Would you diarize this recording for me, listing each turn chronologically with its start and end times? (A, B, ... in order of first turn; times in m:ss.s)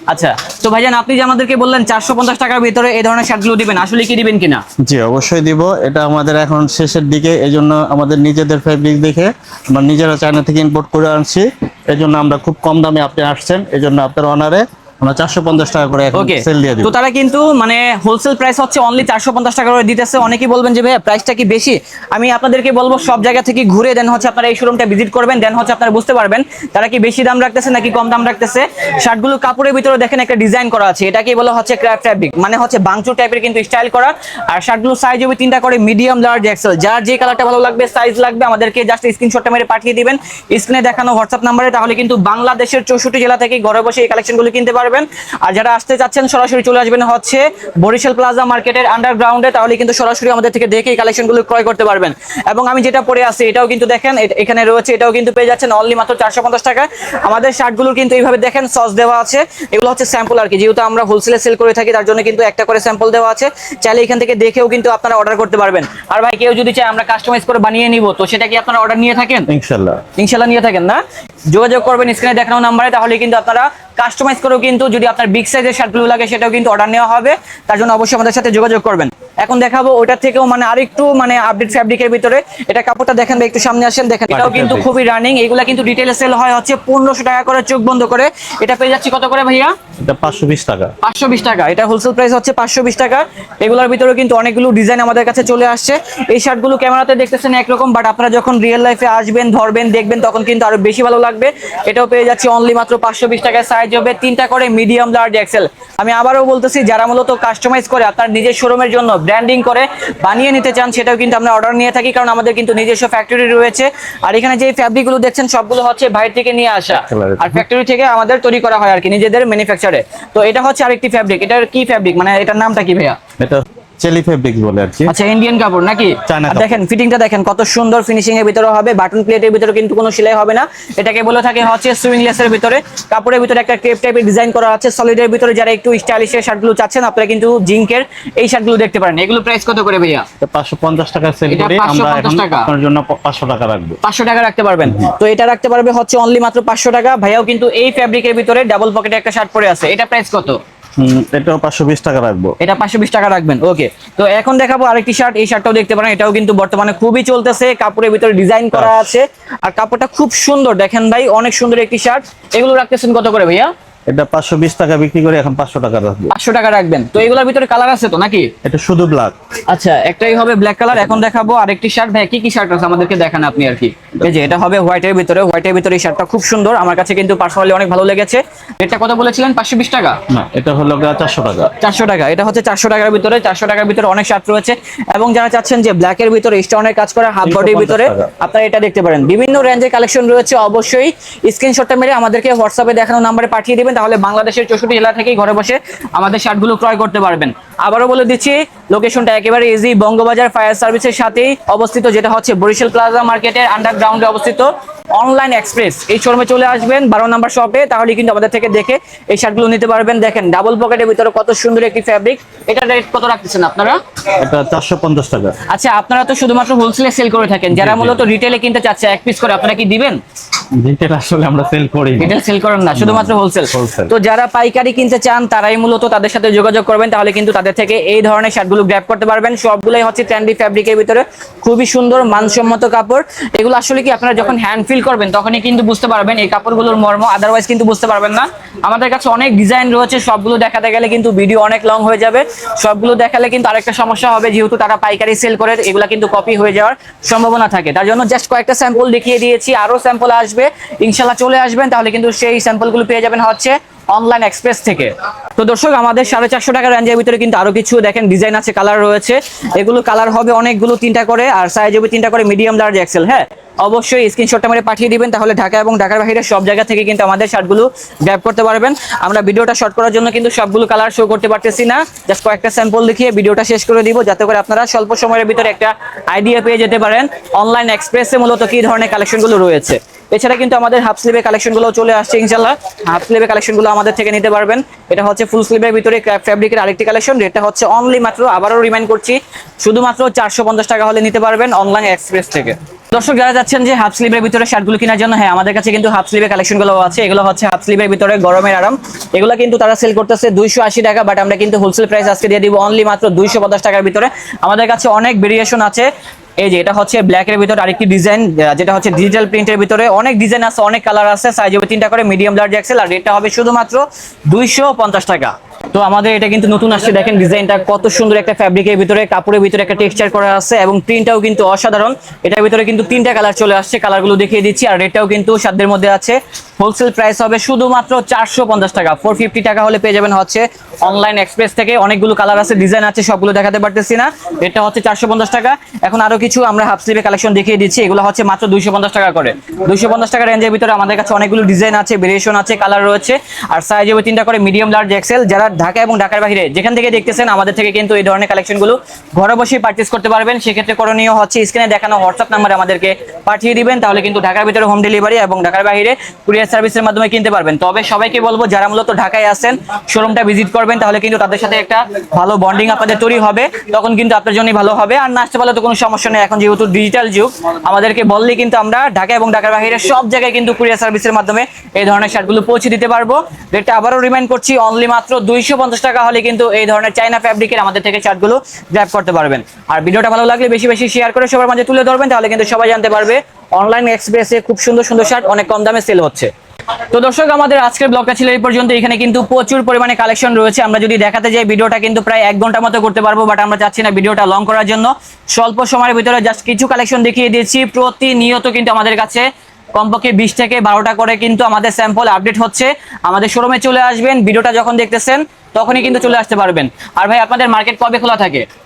0:00.1-0:04.6 A
0:04.8-0:16.9 B
0:16.1-1:09.5 A
1:09.5-1:10.0 B
1:10.2-1:29.7 A
1:24.3-1:24.9 B
1:30.0-1:30.9 B
1:31.0-2:03.2 A
1:56.9-1:57.6 B
2:03.4-2:05.2 B
2:05.1-2:20.2 A
2:06.3-2:06.8 B
2:20.4-2:24.0 B
2:21.5-2:22.7 A
2:24.0-2:30.6 A
2:31.0-2:32.6 B
2:32.6-2:43.7 A
2:38.7-2:39.1 B
2:44.1-2:46.3 B
2:46.3-2:48.5 A
2:48.6-2:49.4 B
2:49.7-3:00.2 A
3:00.3-3:01.7 B
3:01.8-3:34.0 A
3:07.4-3:08.3 B
3:34.4-3:35.6 B
3:35.7-3:40.2 A
3:37.7-3:38.3 B
3:40.7-3:42.4 B
3:42.2-6:26.5 A
3:42.9-3:44.1 B
6:27.1-6:48.7 A